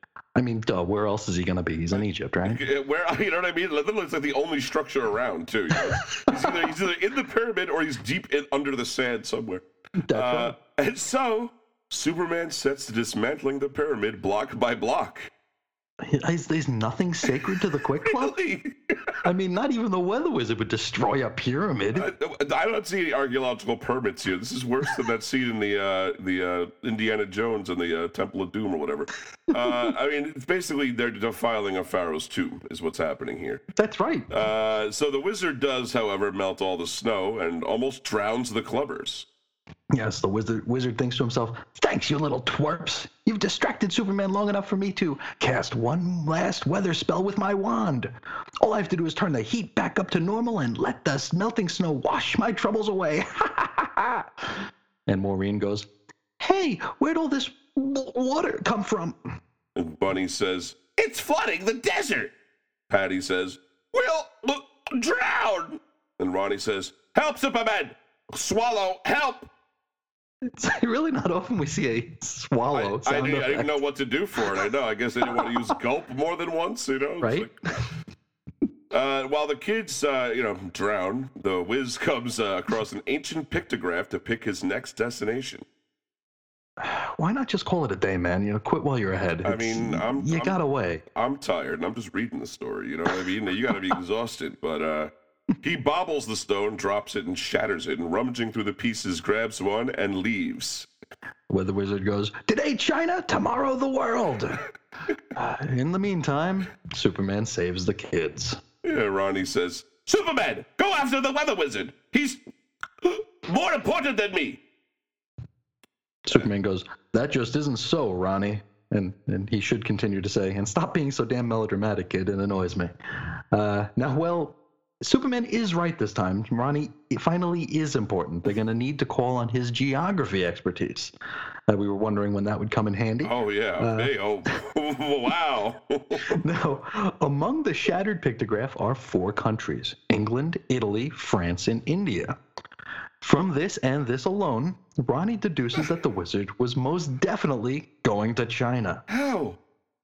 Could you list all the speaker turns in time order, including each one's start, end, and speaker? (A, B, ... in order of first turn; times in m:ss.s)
0:00.4-0:02.6 A
0:01.9-0:15.3 B
0:10.0-0:10.6 A
0:16.0-0:18.4 A
0:18.0-0:19.2 B
0:19.2-0:22.1 A
0:22.0-0:33.6 B
0:33.8-0:34.3 A
0:34.3-0:39.3 B
0:39.9-0:54.4 A
0:55.1-0:55.9 A
0:56.4-0:59.2 A
0:59.8-1:02.3 B
1:02.9-1:09.5 B
1:10.5-1:13.8 A
1:12.7-1:17.5 B
1:17.2-1:17.5 A
1:18.9-1:25.6 B
1:26.8-1:31.0 A
1:29.4-1:30.6 B
1:31.1-1:35.1 B
1:35.6-1:40.9 B
1:41.5-1:44.6 A
1:45.4-1:48.6 A
1:48.8-1:52.4 B
1:53.0-1:54.6 B
1:56.3-2:02.9 A
2:03.5-2:11.1 A
2:11.7-2:14.1 A
2:13.2-2:16.4 B
2:16.3-2:22.4 A
2:23.2-2:29.0 A
2:29.1-2:29.6 B